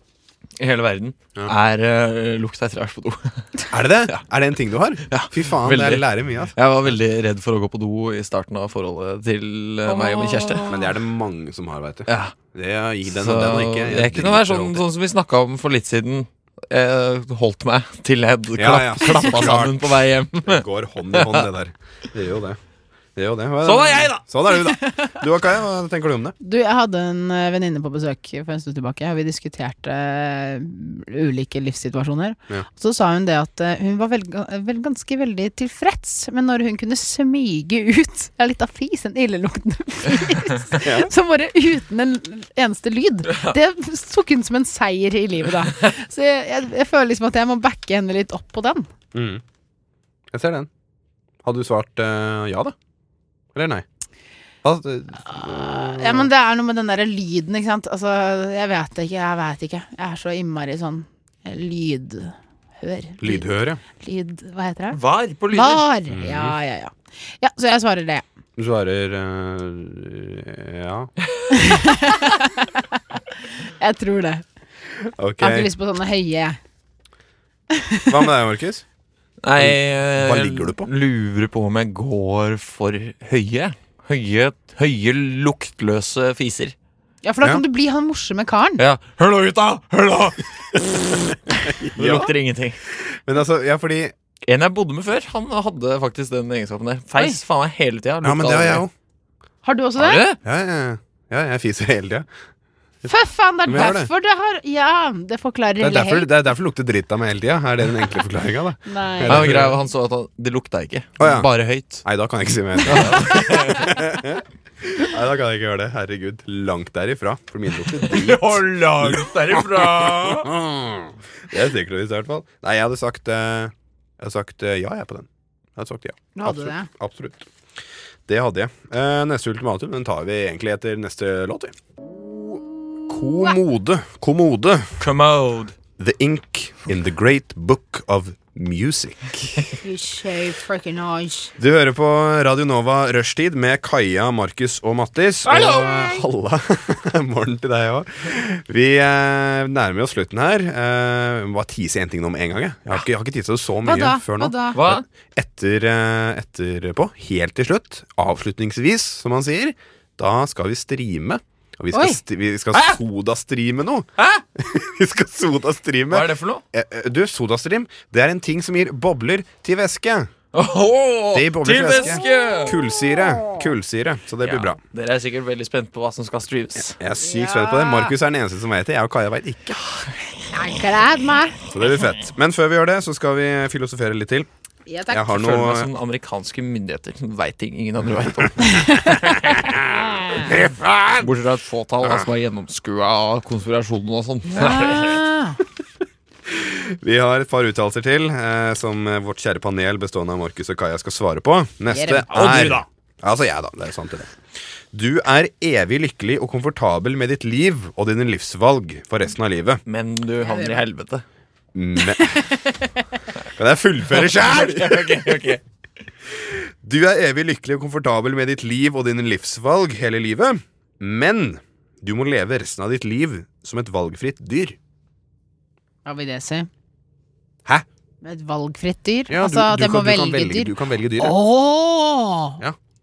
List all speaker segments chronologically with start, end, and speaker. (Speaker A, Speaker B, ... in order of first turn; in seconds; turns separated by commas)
Speaker A: 0.6-3.5, Speaker B: 3.7-6.5, Speaker A: 5.0-10.7, Speaker C: 9.8-10.9, Speaker B: 10.7-14.8, Speaker A: 12.1-12.3, Speaker A: 13.1-21.5, Speaker B: 18.6-22.6, Speaker B: 23.1-26.4, Speaker A: 23.6-24.2, Speaker C: 24.5-25.1, Speaker C: 26.4-48.9, Speaker B: 40.8-41.1, Speaker A: 43.3-43.5, Speaker B: 49.1-49.4, Speaker B: 50.3-50.7, Speaker B: 51.4-52.7, Speaker B: 53.5-53.8, Speaker B: 54.6-56.3, Speaker C: 55.3-63.4, Speaker B: 63.2-63.8, Speaker C: 64.0-65.0, Speaker A: 64.9-65.8, Speaker C: 65.5-68.2, Speaker B: 66.1-66.5, Speaker B: 68.6-71.1, Speaker C: 71.5-74.4, Speaker B: 75.2-75.7, Speaker C: 75.4-76.6, Speaker C: 77.7-78.3, Speaker B: 78.1-78.8, Speaker A: 79.4-86.7, Speaker B: 79.6-80.9, Speaker C: 87.2-88.8, Speaker A: 88.8-92.8, Speaker B: 91.6-92.3, Speaker B: 92.9-94.1, Speaker A: 94.5-98.8, Speaker B: 98.2-98.9, Speaker C: 99.6-100.2, Speaker A: 100.0-100.4, Speaker B: 100.4-102.3, Speaker C: 103.0-106.3, Speaker B: 103.7-104.1, Speaker B: 105.8-109.7, Speaker C: 108.9-109.6, Speaker A: 109.2-112.0, Speaker B: 111.2-111.5, Speaker B: 112.0-127.5, Speaker A: 112.8-113.9, Speaker A: 117.9-120.5, Speaker C: 126.3-126.9, Speaker B: 128.3-134.9, Speaker C: 132.4-133.6, Speaker A: 135.0-135.7, Speaker B: 136.0-139.8, Speaker C: 139.8-141.5, Speaker B: 141.6-170.3, Speaker C: 145.5-146.2, Speaker C: 153.8-154.8, Speaker A: 154.7-155.0, Speaker C: 161.9-162.2, Speaker A: 162.7-163.0, Speaker A: 164.2-164.4, Speaker A: 166.1-166.6, Speaker A: 170.5-172.8, Speaker B: 171.3-174.8, Speaker A: 174.4-177.0, Speaker B: 176.9-179.8, Speaker C: 177.2-178.1, Speaker A: 179.8-180.8, Speaker C: 180.5-181.6, Speaker B: 181.7-184.5, Speaker C: 184.8-185.3, Speaker B: 185.1-185.9, Speaker A: 185.3-190.6, Speaker C: 188.6-189.5, Speaker B: 189.6-191.2, Speaker A: 191.1-195.2, Speaker C: 194.5-195.6, Speaker B: 196.5-204.4, Speaker C: 201.9-202.3, Speaker A: 202.3-202.8, Speaker B: 204.9-209.8, Speaker A: 209.9-211.2, Speaker C: 210.4-210.8, Speaker B: 211.7-212.4, Speaker C: 212.2-212.9, Speaker B: 213.5-215.5, Speaker A: 214.1-215.6, Speaker B: 216.3-224.8, Speaker C: 226.1-226.7, Speaker C: 228.2-232.6, Speaker B: 229.3-231.4